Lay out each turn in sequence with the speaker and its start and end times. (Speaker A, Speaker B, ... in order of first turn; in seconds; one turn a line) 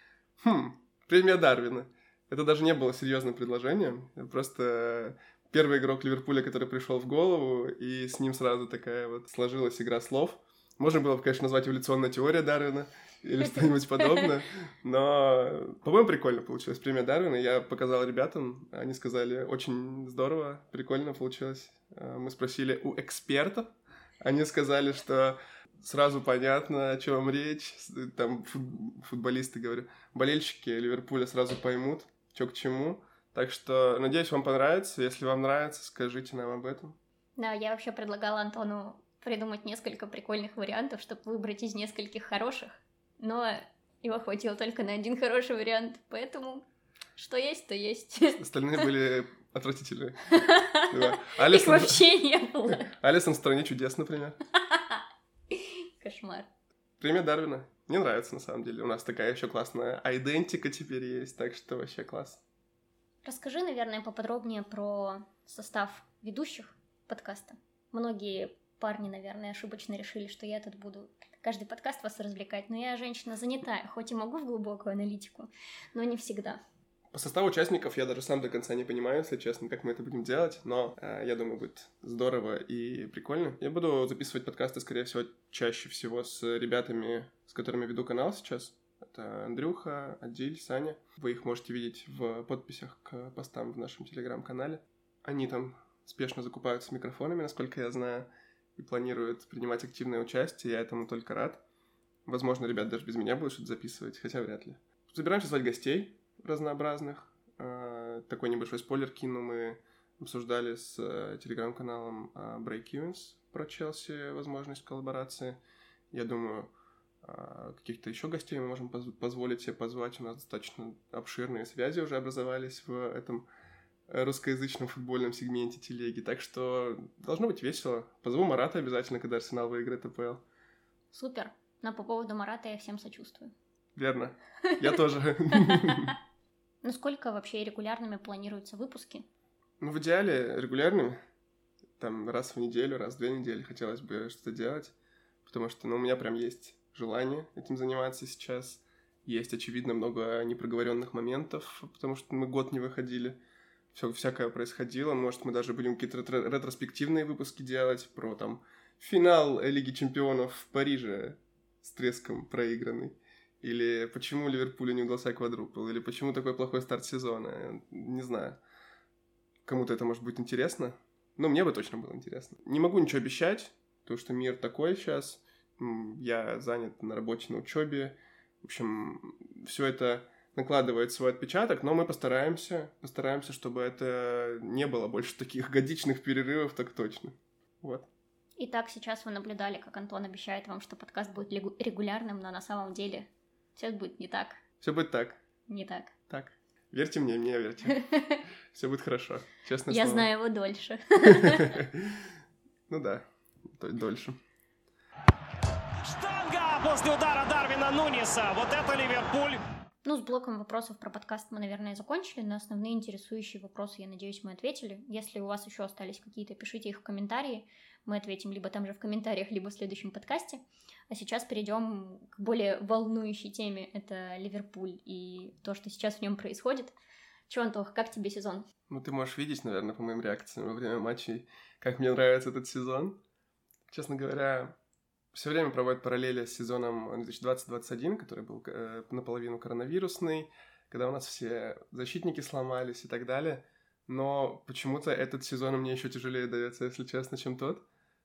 Speaker A: 0.4-37.0
Speaker B: 37.4-48.4
Speaker A: 48.3-52.0
Speaker B: 50.3-52.9
Speaker A: 52.7-54.4
Speaker B: 54.6-56.5
Speaker A: 57.0-62.4
Speaker B: 63.2-76.6
Speaker A: 77.1-101.6
Speaker A: 102.2-115.6
Speaker A: 116.1-116.7
Speaker A: 117.2-123.5
Speaker A: 124.1-130.4
Speaker B: 131.1-133.5
Speaker A: 133.9-136.2
Speaker B: 135.6-136.1
Speaker B: 136.8-139.2
Speaker A: 139.8-141.2
Speaker A: 142.0-144.9
Speaker A: 145.4-153.4
Speaker A: 153.9-168.6
Speaker A: 169.6-188.1
Speaker B: 188.6-194.6
Speaker A: 194.8-195.4
Speaker B: 195.7-196.1
Speaker A: 196.3-198.0
Speaker B: 198.0-198.4
Speaker A: 198.7-200.3
Speaker B: 199.9-201.8
Speaker A: 201.2-202.3
Speaker A: 202.9-204.4
Speaker C: 206.0-209.6
Speaker B: 210.0-226.9
Speaker B: 227.5-228.7
Speaker A: 228.9-233.2
Speaker A: 233.9-234.8
Speaker A: 235.3-247.8